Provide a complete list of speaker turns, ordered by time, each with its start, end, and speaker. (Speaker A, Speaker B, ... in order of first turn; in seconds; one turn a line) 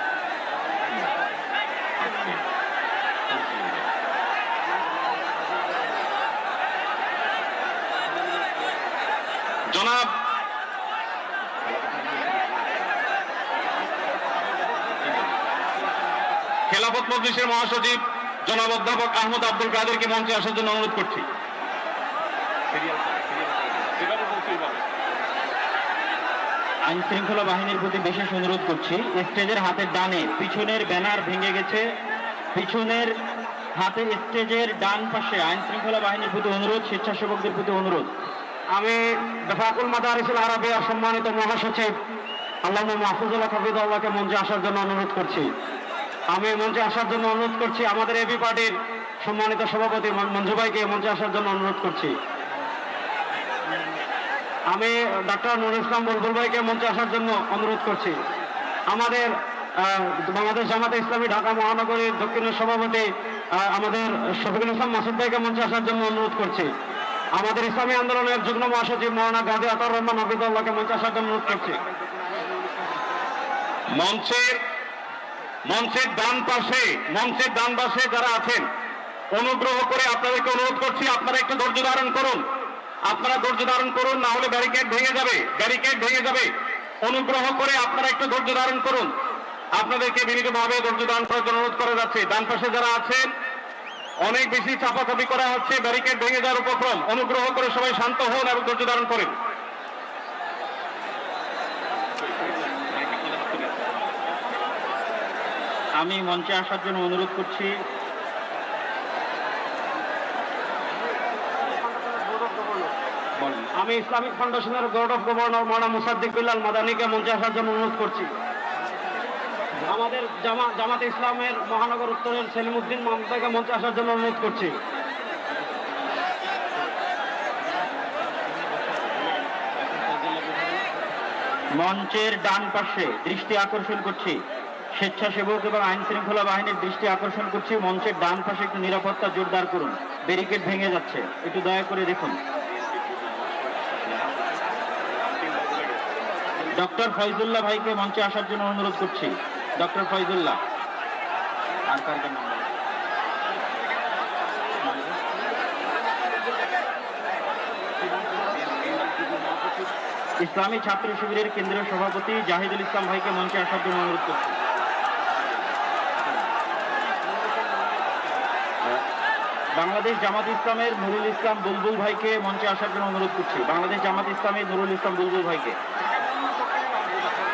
Speaker A: 9.7-10.1
Speaker A: 16.7-21.2
Speaker A: 22.7-24.8
Speaker B: 26.9-31.9
Speaker B: 32.5-33.2
Speaker B: 33.8-38.1
Speaker C: 38.8-41.9
Speaker C: 42.6-45.5
Speaker C: 46.3-52.1
Speaker C: 54.7-58.2
Speaker C: 58.9-66.7
Speaker C: 67.3-71.8
Speaker A: 73.9-74.6
Speaker A: 75.7-78.7
Speaker A: 79.3-82.4
Speaker A: 83.0-86.5
Speaker A: 87.0-89.1
Speaker A: 89.8-93.3
Speaker A: 94.2-99.3
Speaker B: 106.0-107.7
Speaker C: 112.0-112.9
Speaker C: 113.7-118.3
Speaker C: 119.8-124.8
Speaker C: 129.9-130.8
Speaker B: 131.8-134.4
Speaker B: 134.9-142.4
Speaker B: 146.7-150.6
Speaker B: 151.9-152.7
Speaker B: 154.8-155.2
Speaker B: 160.4-164.6
Speaker B: 169.8-175.8